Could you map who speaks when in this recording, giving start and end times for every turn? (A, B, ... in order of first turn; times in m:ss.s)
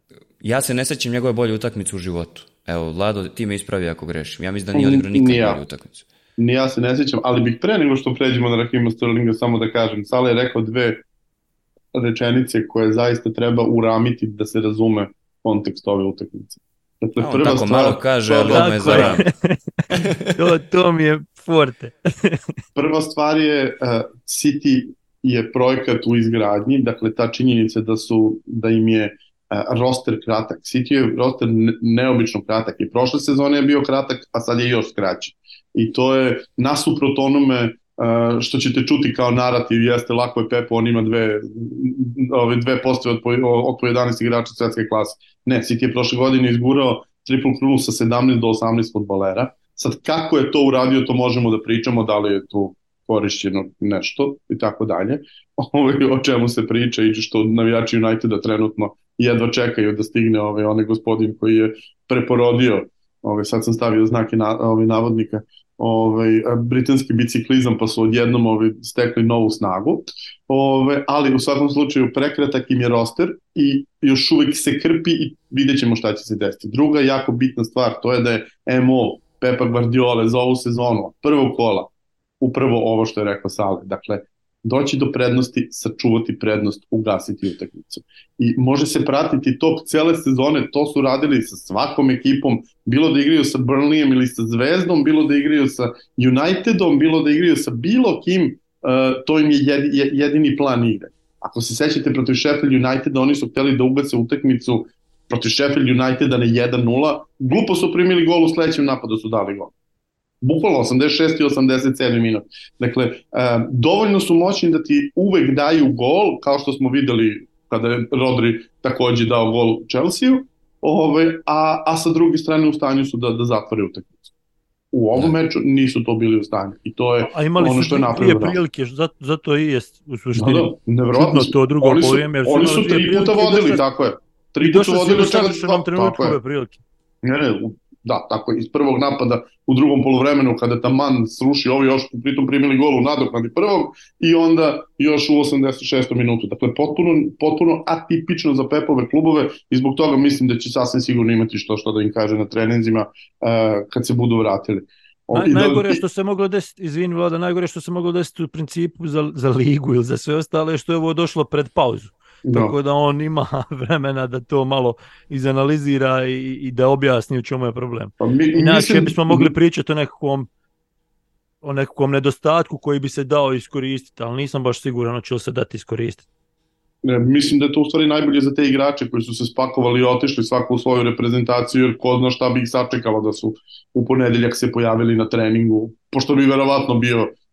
0:00.4-0:06.0 A
0:04.7-0:05.6 B
0:06.4-0:11.0 B
0:11.9-0:19.2 B
0:17.2-0:19.2 A
0:18.4-0:19.8 C
0:19.9-0:20.4 A
0:20.4-0:22.4 C
0:22.8-1:21.9 B
1:22.4-1:49.7 B
1:50.4-2:04.2 B
2:04.9-2:08.6 B
2:07.2-2:13.8 C
2:10.3-2:16.4 B
2:14.6-2:16.8 C
2:17.2-2:36.0 B
2:35.3-2:50.5 C
2:42.5-2:42.7 B
2:48.2-2:49.5 B
2:51.6-2:56.2 C
2:57.0-3:07.3 B